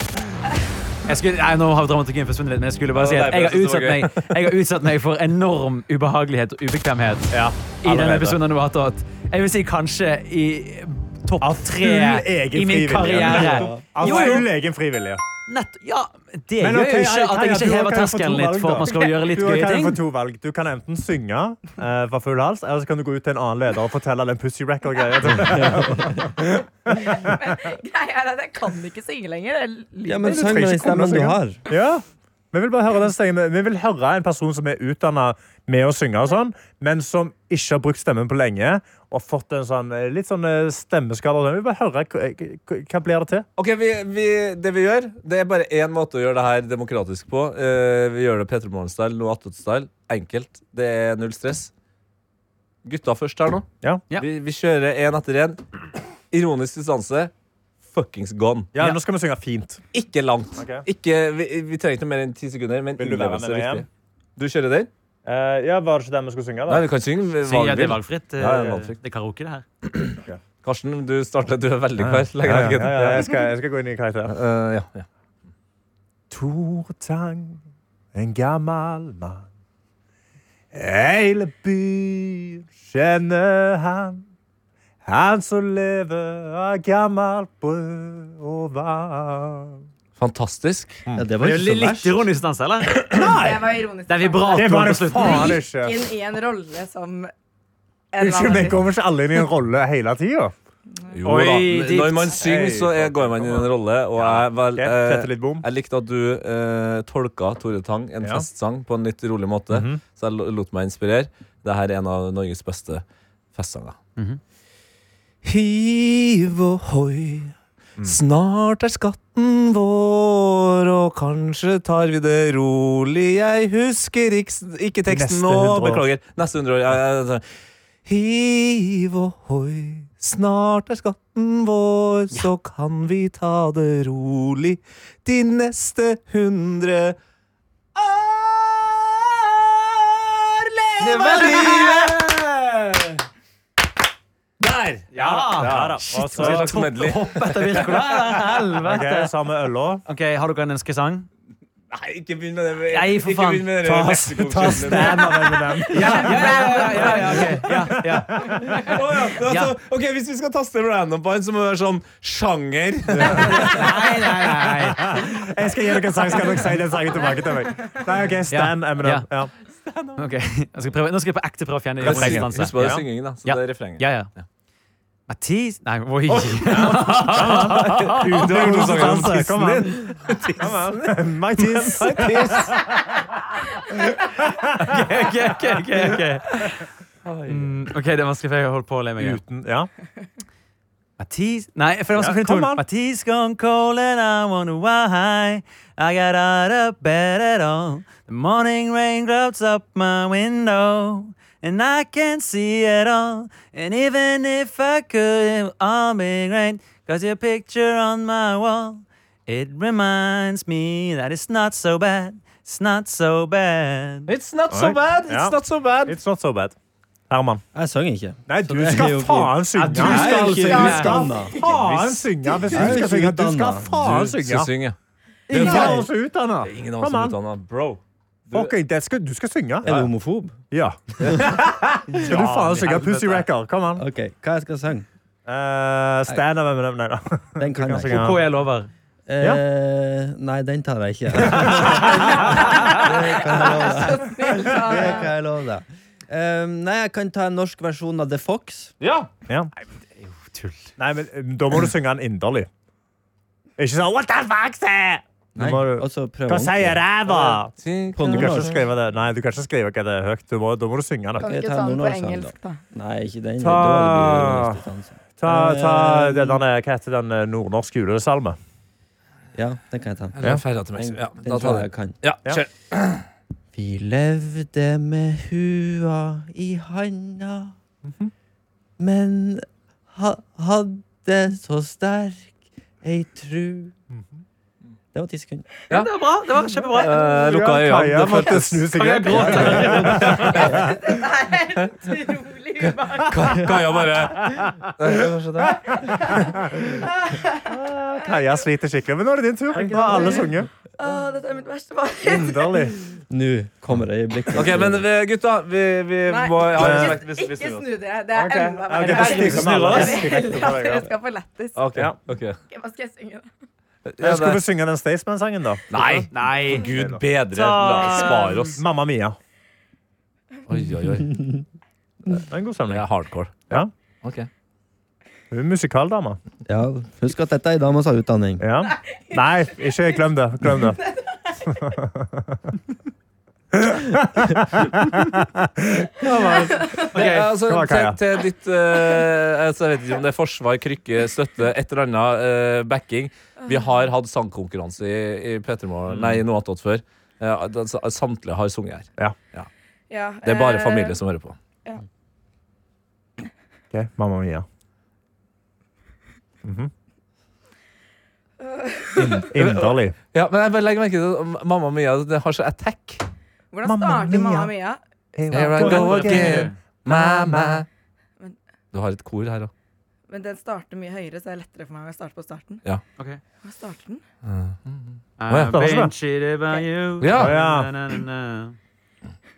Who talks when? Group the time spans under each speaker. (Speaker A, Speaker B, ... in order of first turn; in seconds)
Speaker A: 1.0-14.5, 15.5-20.0, 67.4-69.6, 91.4-93.2, 94.1-95.6, 101.2-102.4, 141.0-142.1, 145.1-149.3, 150.0-151.3, 152.9-155.2, 155.9-159.7, 163.3-165.2, 168.5-169.2, 170.2-172.9, 173.4-174.3, 175.3-178.5, 184.8-186.9, 187.5-189.4, 191.2-214.3, 219.8-221.2, 232.1-233.4, 238.1-238.9, 250.2-250.9, 285.9-287.2, 288.9-290.7, 294.3-294.9, 299.9-300.2, 309.0-310.5, 316.0-316.9, 317.5-318.8, 365.8-366.8, 375.4-378.8
Speaker B: 2.9-4.5, 43.6-51.7, 52.8-55.6, 56.3-57.3, 57.9-58.7, 59.9-64.9, 66.7-69.0, 69.8-73.3, 74.3-75.0, 90.2-91.0, 101.1-113.0, 113.5-114.0, 115.4-127.4, 128.1-137.2, 137.9-143.2, 144.6-148.3, 151.9-163.9, 169.8-170.2, 172.0-174.1, 176.8-182.9, 187.2-187.8, 214.3-216.2, 222.7-223.0, 224.0-224.9, 225.5-226.1, 226.6-228.7, 249.0-249.3, 257.3-258.8, 270.4-273.2, 286.9-290.9, 293.0-295.9, 304.5-307.9, 311.8-312.6, 314.1-314.6, 315.9-318.8, 320.7-321.4, 322.9-324.5, 336.2-349.7, 350.4-351.6, 359.3-363.2, 365.5-367.9, 368.9-369.7, 374.4-375.7, 377.2-377.6
Speaker C: 7.3-8.4, 11.4-15.2, 16.6-27.6, 30.2-43.5, 58.7-59.8, 60.6-60.9, 63.0-63.9, 65.2-66.8, 72.0-74.3, 76.3-77.6, 78.1-79.4, 80.7-84.2, 85.0-89.8, 93.1-93.7, 94.5-96.1, 98.2-100.5, 102.3-105.6, 109.7-110.0, 125.1-126.0, 145.2-146.7, 148.8-150.0, 153.9-158.5, 163.1-169.5, 172.0-173.0, 176.7-183.3, 184.4-184.9, 189.2-189.9, 192.2-192.8, 214.7-216.7, 217.3-217.6, 218.5-224.7, 225.5-227.3, 228.5-230.1, 230.7-234.0, 235.4-238.5, 241.4-242.5, 251.0-252.7, 253.8-261.4, 263.6-264.8, 265.4-268.6, 278.1-278.3, 287.2-290.9, 295.7-297.1, 297.7-300.7, 302.3-303.0, 306.8-307.2, 308.3-311.1, 314.2-315.9, 316.7-317.2, 318.8-319.4, 322.3-323.0, 325.5-326.4, 328.6-331.0, 331.7-332.7, 333.7-338.2, 353.9-354.6, 356.6-356.9, 359.2-360.1, 363.8-364.7, 365.4-367.8, 375.7-376.1, 377.3-377.9
Speaker D: 13.0-13.9, 25.4-26.2, 30.1-31.6, 91.1-92.2, 217.7-221.6, 222.7-224.0, 225.7-226.0, 229.8-230.6, 233.9-235.1, 237.6-238.4, 239.3-248.9, 255.6-257.0, 258.1-258.8, 261.4-266.6, 269.5-272.2, 273.7-277.7, 279.0-283.9, 285.1-285.7, 303.3-305.0, 321.3-321.6, 326.6-328.6
Speaker E: 27.0-31.0, 93.1-97.3, 98.1-98.9, 242.7-245.3, 261.4-262.8, 290.7-294.0, 295.8-297.7, 299.8-303.1, 306.3-311.9, 312.7-313.5, 329.0-330.1, 331.0-331.7, 336.6-337.1, 343.6-343.9, 350.1-351.2, 358.6-359.5, 363.7-365.0, 370.3-372.8, 373.6-374.2